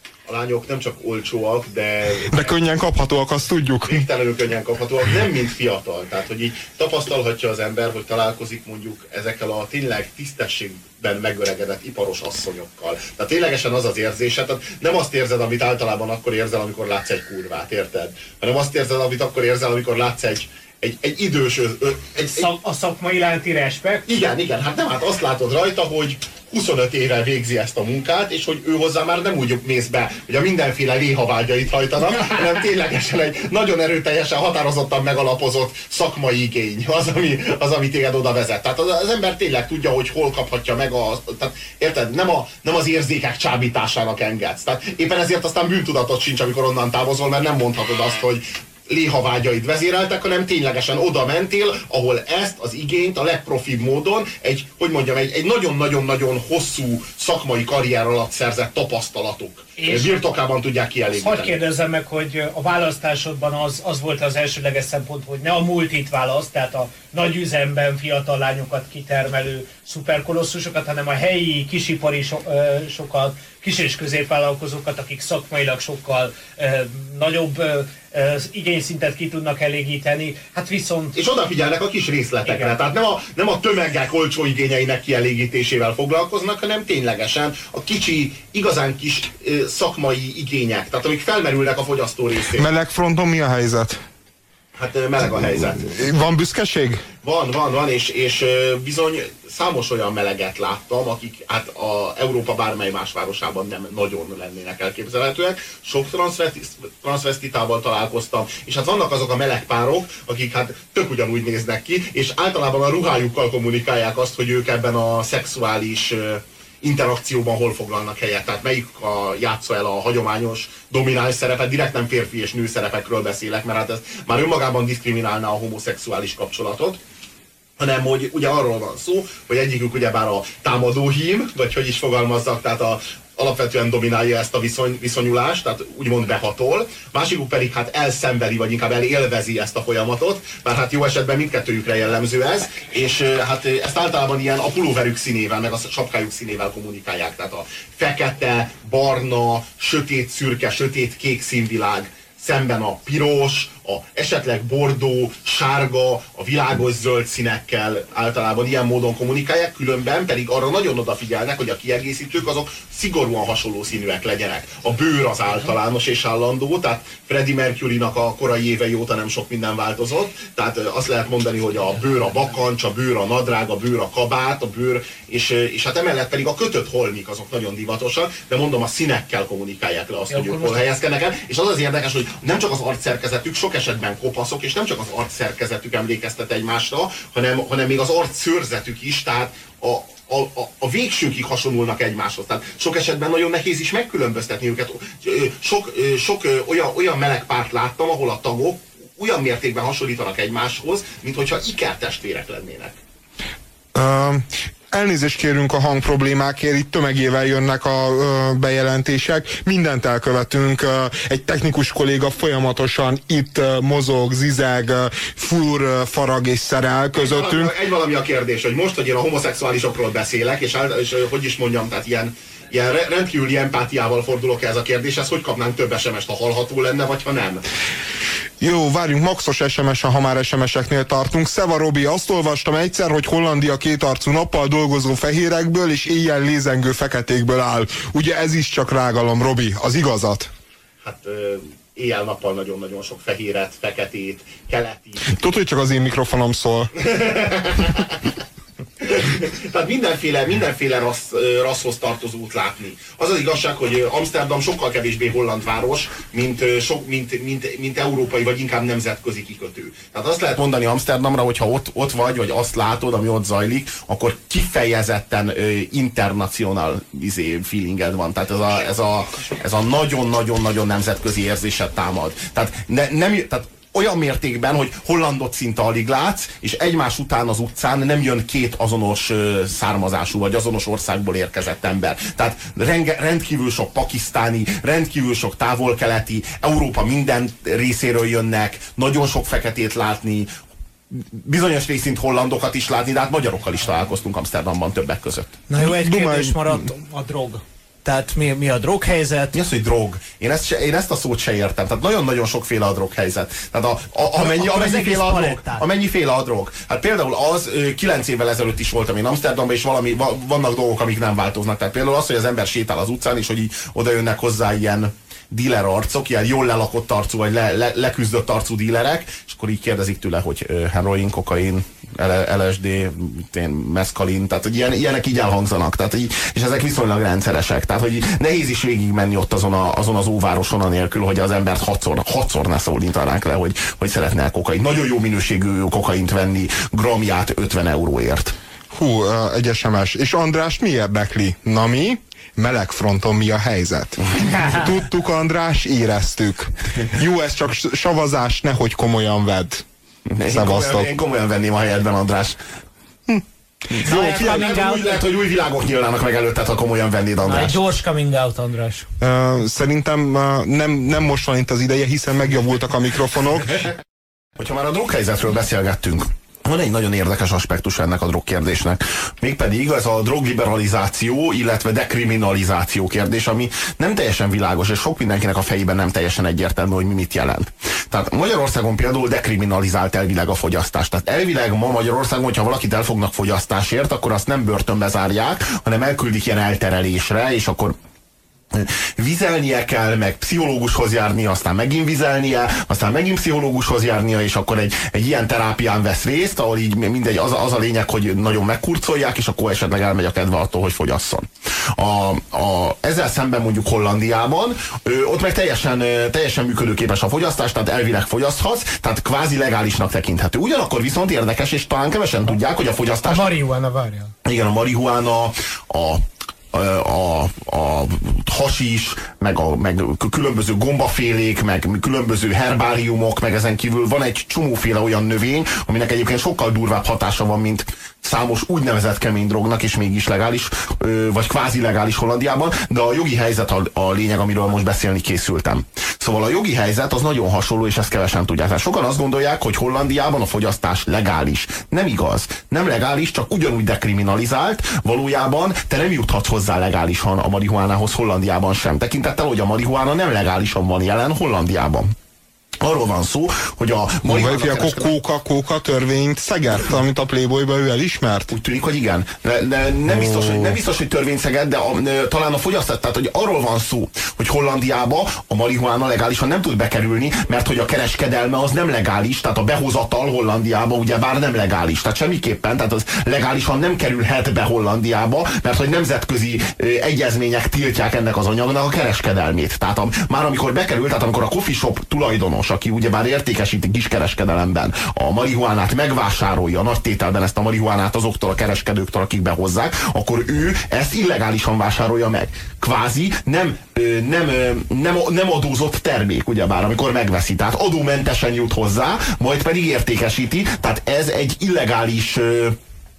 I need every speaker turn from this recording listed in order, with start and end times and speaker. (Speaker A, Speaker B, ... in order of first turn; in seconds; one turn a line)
Speaker A: 0.3-2.5
Speaker B: 2.3-4.0
Speaker A: 3.9-22.5
Speaker C: 22.2-24.1
Speaker A: 24.1-61.5
Speaker C: 59.8-60.2
Speaker C: 61.1-81.2
Speaker A: 81.1-92.7
Speaker C: 82.5-82.7
Speaker B: 92.5-94.0
Speaker A: 94.7-95.9
Speaker B: 95.7-97.0
Speaker A: 97.2-127.0
Speaker A: 127.8-203.0
Speaker C: 180.3-180.8
Speaker B: 203.9-217.7
Speaker A: 217.1-227.6
Speaker B: 228.6-240.5
Speaker A: 241.0-245.3
Speaker B: 245.2-246.9
Speaker A: 246.9-248.3
Speaker A: 249.0-290.5
Speaker A: 291.1-295.6
Speaker C: 295.7-299.6
Speaker B: 295.8-296.8
Speaker A: 299.5-338.5
Speaker C: 304.4-305.8
Speaker B: 338.9-349.8
Speaker A: 350.3-352.6
Speaker B: 350.4-351.1
Speaker B: 353.3-354.6
Speaker A: 353.9-357.8
Speaker C: 354.0-355.2
Speaker C: 357.4-359.1
Speaker B: 359.2-363.9
Speaker A: 364.6-387.9
Speaker A: 388.7-413.5
Speaker C: 413.2-414.3
Speaker A: 414.4-452.1
Speaker A: 452.8-455.1
Speaker B: 454.2-458.5
Speaker A: 458.5-502.8
Speaker B: 460.1-460.8